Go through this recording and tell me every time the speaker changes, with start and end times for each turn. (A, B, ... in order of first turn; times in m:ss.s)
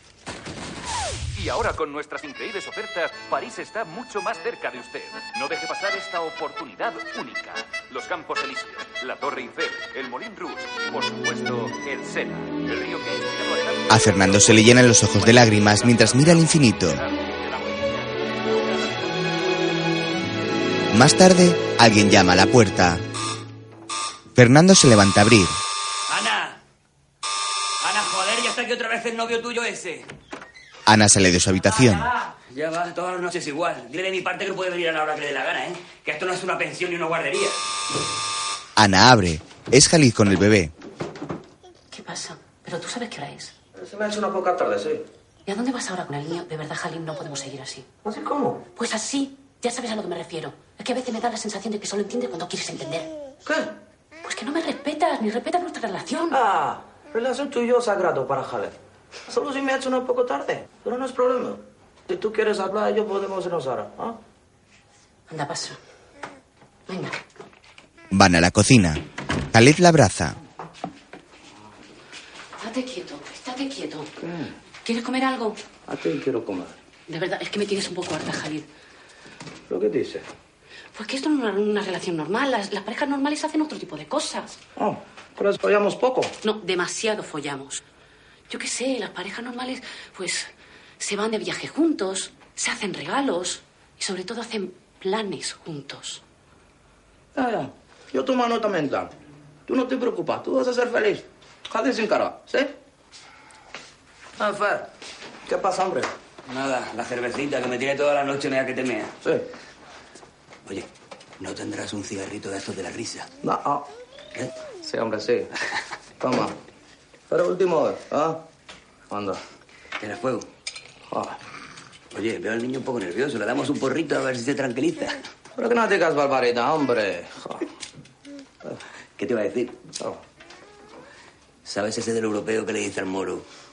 0:01.4-0:19.1 A
0:13.9-0:17.0 B
0:20.9-0:23.0 B
0:24.4-0:25.6 B
0:26.1-0:26.6 C
0:27.8-0:30.1 C
0:30.9-0:32.1 B
0:32.5-0:37.6 C
0:38.8-0:40.7 B
0:41.9-0:43.5 D
0:43.8-0:45.0 E
0:45.5-0:47.9 D
0:48.0-0:48.6 E
0:48.8-0:53.1 D
0:53.4-0:53.8 E
0:54.2-0:56.4 D
0:56.3-0:58.8 E
0:59.3-1:04.2 E
1:05.3-1:05.8 D
1:06.9-1:07.2 D
1:08.1-1:09.0 B
1:09.5-1:10.4 B
1:12.6-1:14.1 D
1:14.2-1:14.5 E
1:14.8-1:15.6 D
1:15.9-1:16.7 E
1:17.1-1:18.7 D
1:19.7-1:20.2 E
1:20.9-1:24.6 D
1:24.8-1:26.3 E
1:26.4-1:27.8 D
1:28.5-1:36.2 D
1:37.4-1:39.1 E
1:39.7-1:42.7 E
1:44.4-1:44.9 E
1:45.5-1:46.1 E
1:46.5-1:49.1 C
1:49.2-1:49.5 E
1:51.4-1:53.3 C
1:53.4-1:53.9 E
1:54.8-1:55.5 E
1:56.2-1:56.6 E
1:57.3-1:58.4 E
1:59.1-1:59.4 E
2:00.0-2:00.5 C
2:01.1-2:01.4 E
2:02.1-2:05.2 C
2:05.6-2:07.7 E
2:09.2-2:09.8 C
2:11.6-2:13.4 C